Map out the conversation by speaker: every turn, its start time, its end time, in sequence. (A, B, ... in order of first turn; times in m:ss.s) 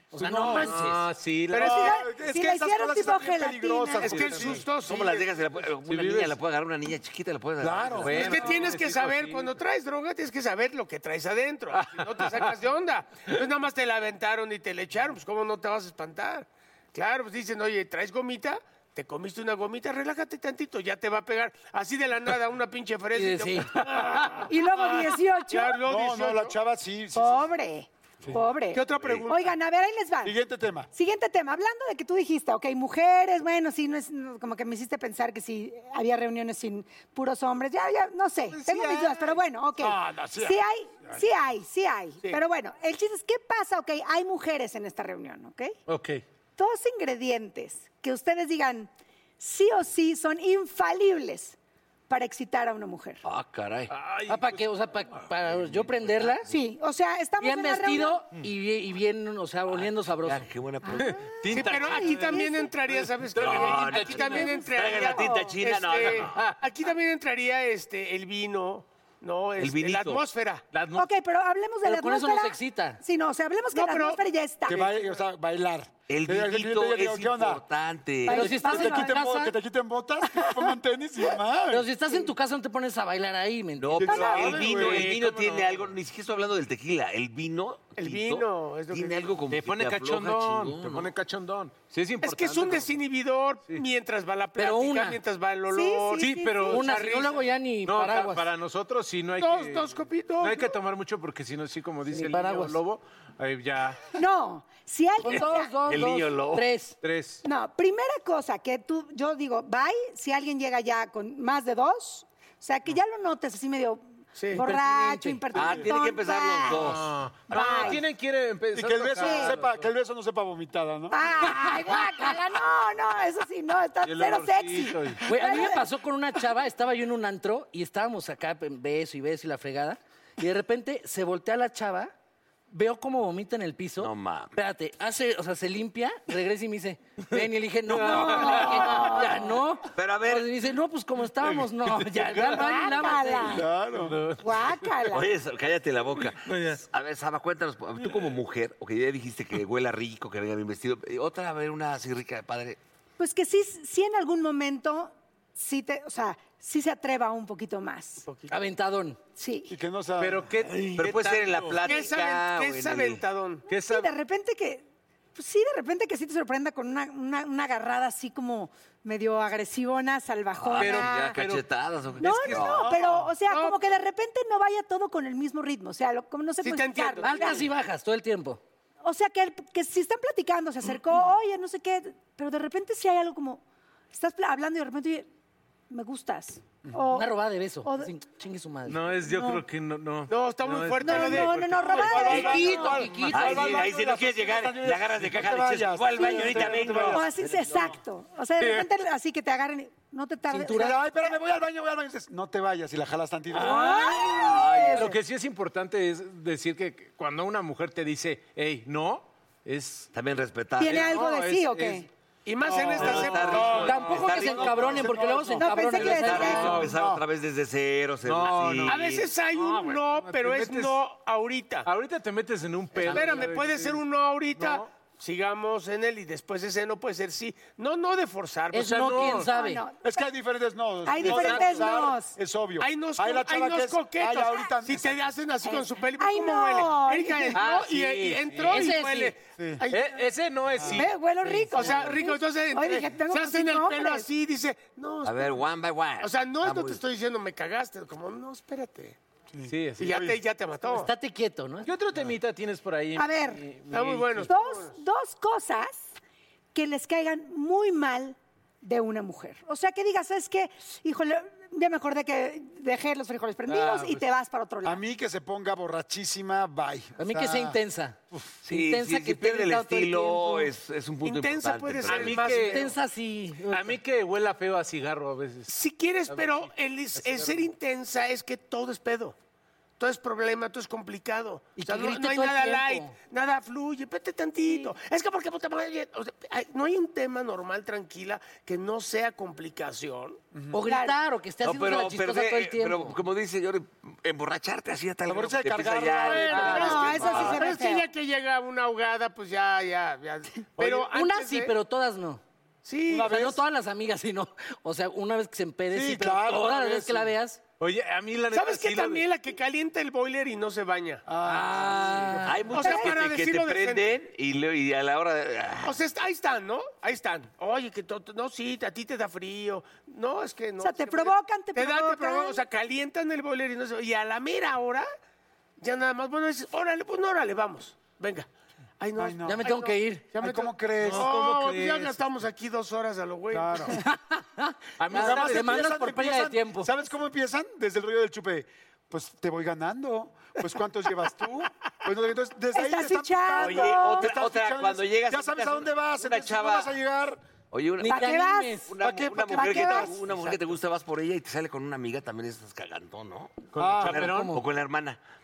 0:00.1-0:00.8 A
0:00.2-0:00.9 B
0:00.4-0:00.9 C
0:00.5-0:01.8 D
0:01.5-0:01.9 C
0:01.5-0:04.7 A
0:01.6-0:04.2 E
0:04.0-0:05.2 C
0:04.1-0:04.6 D
0:04.7-0:08.7 B
0:05.8-0:06.4 D
0:07.6-0:08.4 A
0:08.0-0:09.6 D
0:08.1-0:26.6 C
0:11.8-0:12.5 D
0:23.1-0:23.8 F
0:24.5-0:25.8 E
0:25.8-0:27.4 A
0:27.1-0:30.4 E
0:28.7-0:29.5 C
0:30.2-0:30.9 A
0:30.9-0:45.8 E
0:38.5-0:39.3 D
0:39.8-0:40.6 A
0:45.9-0:46.2 D
0:46.6-0:51.6 E
0:52.1-0:53.2 E
0:53.2-0:53.9 B
0:53.9-0:54.6 D
0:54.3-0:56.5 F
0:56.5-0:58.2 E
0:57.4-1:00.5 F
0:59.7-1:01.7 B
1:00.8-1:02.7 E
1:01.0-1:04.5 D
1:01.5-1:10.6 C
1:03.4-1:06.4 B
1:04.2-1:05.4 E
1:06.0-1:06.6 D
1:09.6-1:10.2 B
1:10.7-1:11.1 D
1:10.9-1:14.9 E
1:11.8-1:13.0 F
1:13.7-1:14.2 C
1:14.7-1:17.6 A
1:16.1-1:18.5 B
1:18.2-1:19.2 E
1:18.3-1:19.5 F
1:18.3-1:21.8 A
1:21.7-1:24.2 F
1:23.8-1:31.1 B
1:24.0-1:25.2 A
1:24.0-1:24.6 E
1:24.2-1:25.9 D
1:28.0-1:29.2 C
1:29.5-1:32.9 D
1:32.2-1:37.4 C
1:34.6-1:35.2 F
1:35.7-1:36.8 E
1:36.2-1:44.0 D
1:36.6-1:38.4 F
1:39.4-1:40.7 C
1:42.1-1:42.8 F
1:44.2-1:45.7 E
1:45.2-1:47.0 F
1:45.8-1:46.7 B
1:47.0-1:47.4 D
1:47.4-1:56.9 E
1:54.4-1:54.7 C
1:54.6-1:55.4 F
1:55.5-1:57.1 B
1:56.8-1:59.9 D
1:57.5-1:58.0 E
1:58.7-2:01.4 A
1:59.2-1:59.5 E
2:01.1-2:05.8 E
2:04.0-2:05.3 D
2:05.2-2:12.1 F
2:12.7-2:23.6 F
2:14.0-2:14.6 B
2:17.9-2:19.3 D
2:17.9-2:19.4 E
2:19.9-2:20.6 B
2:21.4-2:23.0 D
2:22.5-2:23.7 E
2:23.5-2:24.2 A
2:23.9-2:24.9 D
2:24.4-2:25.3 E
2:25.1-2:32.8 B
2:26.4-2:26.8 D
2:28.0-2:28.3 D
2:33.2-2:38.2 E
2:38.3-2:38.6 C
2:38.5-2:39.2 F
2:39.4-2:39.7 E
2:39.7-2:40.6 A
2:40.2-2:41.8 D
2:40.8-2:43.2 B
2:41.8-2:43.6 C
2:43.7-2:44.1 D
2:43.7-2:44.8 E
2:45.3-2:51.4 E
2:50.6-2:52.9 B
2:50.8-2:51.6 D
2:52.2-2:57.6 E
2:52.2-2:53.0 D
2:52.8-2:53.9 C
2:56.6-2:57.7 C
2:57.2-2:58.6 F
2:59.0-3:03.6 E
3:04.1-3:05.3 E
3:05.9-3:08.1 E
3:07.1-3:09.2 F
3:08.9-3:13.7 D
3:09.3-3:09.6 E
3:10.3-3:12.2 C
3:11.0-3:13.1 E
3:11.9-3:17.3 A
3:12.2-3:17.9 B
3:12.4-3:13.3 F
3:16.2-3:21.3 E
3:18.6-3:18.9 D
3:20.6-3:23.9 A
3:23.5-3:25.2 E
3:23.8-3:24.3 D
3:24.2-3:25.2 B
3:24.9-3:30.1 D
3:30.1-3:31.2 B
3:30.8-3:32.1 E
3:30.8-3:32.1 D
3:32.4-3:34.0 C
3:32.6-3:35.2 D
3:32.8-3:35.2 B
3:33.7-3:36.8 F
3:34.6-3:35.7 A
3:35.6-3:36.8 E
3:36.0-3:39.2 B
3:36.5-3:36.9 D
3:36.7-3:37.2 A
3:38.2-3:41.0 D
3:38.8-3:41.9 C
3:41.8-3:44.0 D
3:43.0-3:49.0 C
3:43.0-3:43.5 F
3:44.6-3:44.9 D
3:48.7-3:49.8 F
3:48.8-3:49.5 D
3:49.4-3:50.2 E
3:50.0-3:55.2 A
3:51.0-3:52.3 E
3:51.2-3:51.9 D
3:52.8-4:00.2 C
3:55.6-3:57.6 E
3:57.5-3:58.9 D
3:58.6-3:59.3 F
3:59.9-4:02.2 D
4:00.9-4:04.3 E
4:01.7-4:05.6 C
4:05.2-4:07.0 B
4:06.2-4:09.2 C
4:09.5-4:10.4 A
4:09.7-4:10.2 D
4:10.0-4:11.1 C
4:10.8-4:11.9 F
4:11.8-4:14.5 D
4:13.2-4:13.6 E
4:13.9-4:14.9 C
4:14.5-4:16.1 E
4:16.7-4:25.0 E
4:23.7-4:24.2 D
4:24.8-4:27.8 A
4:27.2-4:30.7 F
4:28.6-4:32.6 B
4:31.2-4:32.9 C
4:32.1-4:32.9 D
4:32.6-4:34.0 F
4:33.7-4:35.7 D
4:35.7-4:39.4 C
4:36.3-4:37.7 D
4:40.0-4:50.4 C
4:41.8-4:43.1 F
4:50.5-4:50.8 A
4:50.7-4:53.2 F
4:50.8-4:51.2 E
4:51.6-4:57.7 B
4:55.2-4:57.6 A
4:56.2-5:01.7 C
4:56.5-4:58.1 E
5:00.9-5:02.4 F
5:02.8-5:03.4 C
5:03.1-5:03.6 A
5:03.2-5:07.6 F
5:05.9-5:07.3 A
5:07.8-5:09.2 D
5:08.5-5:11.2 C
5:11.3-5:12.6 A
5:11.4-5:12.6 F
5:12.4-5:16.0 B
5:12.7-5:14.1 C
5:12.7-5:13.1 E
5:15.8-5:25.1 C
5:20.8-5:22.6 E
5:25.8-5:28.5 C
5:29.0-5:34.0 C
5:29.2-5:29.7 A
5:29.4-5:30.3 F
5:30.4-5:31.3 A
5:31.0-5:32.2 D
5:33.5-5:34.0 A
5:34.0-5:36.9 F
5:35.0-5:35.9 D
5:35.1-5:47.4 A
5:42.7-5:44.3 E
5:43.6-5:46.9 B
5:47.7-5:55.2 B
5:48.0-5:48.9 F
5:48.0-5:48.9 E
5:49.0-5:50.6 A
5:49.5-5:50.1 E
5:53.7-5:54.6 D
5:53.8-5:54.3 A
5:54.2-5:54.6 F